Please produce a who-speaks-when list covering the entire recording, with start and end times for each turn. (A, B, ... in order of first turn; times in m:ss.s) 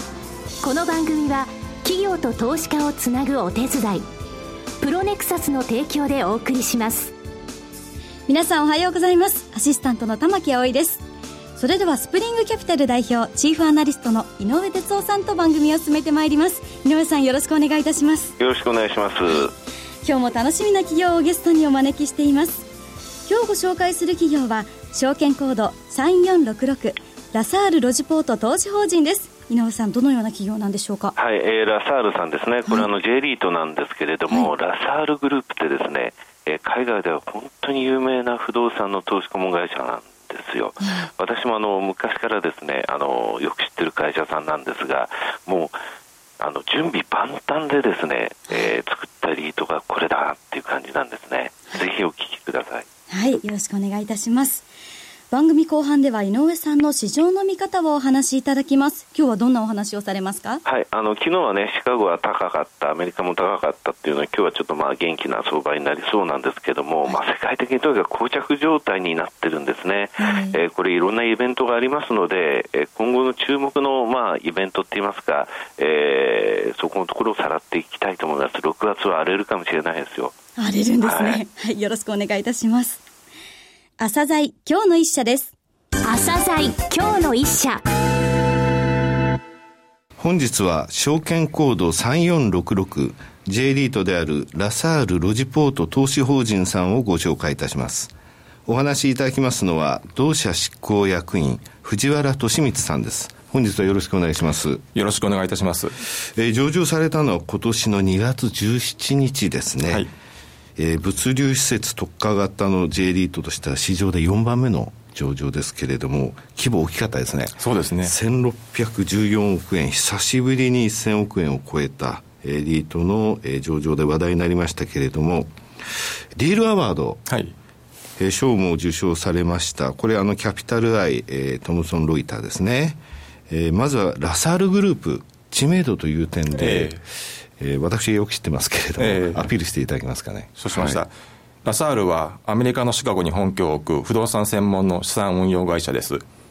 0:00.6-0:04.1 A
0:04.8-0:07.1 A
0:08.3-0:11.0 B
0:11.6-0:18.3 B
0:18.4-0:19.5 C
0:20.0-0:22.6 B
0:23.3-0:31.1 B
0:31.1-0:45.7 C
0:40.8-0:41.1 B
0:46.4-0:52.8 C
0:53.1-0:54.7 B
0:55.3-1:00.6 B
1:00.6-1:20.4 C
1:10.2-1:10.6 B
1:20.6-1:23.0 B
1:21.0-1:21.4 C
1:24.0-1:25.5 B
1:26.0-1:27.8 A
1:30.2-1:38.1 D
1:38.6-1:44.8 D
1:44.9-1:46.0 E
1:46.1-1:50.0 D
1:50.8-2:07.2 D
1:57.6-1:58.1 E
2:07.3-2:07.5 E
2:08.2-2:21.0 D
2:16.6-2:17.0 E
2:19.0-2:19.5 E
2:20.6-2:21.1 E
2:21.6-2:26.2 E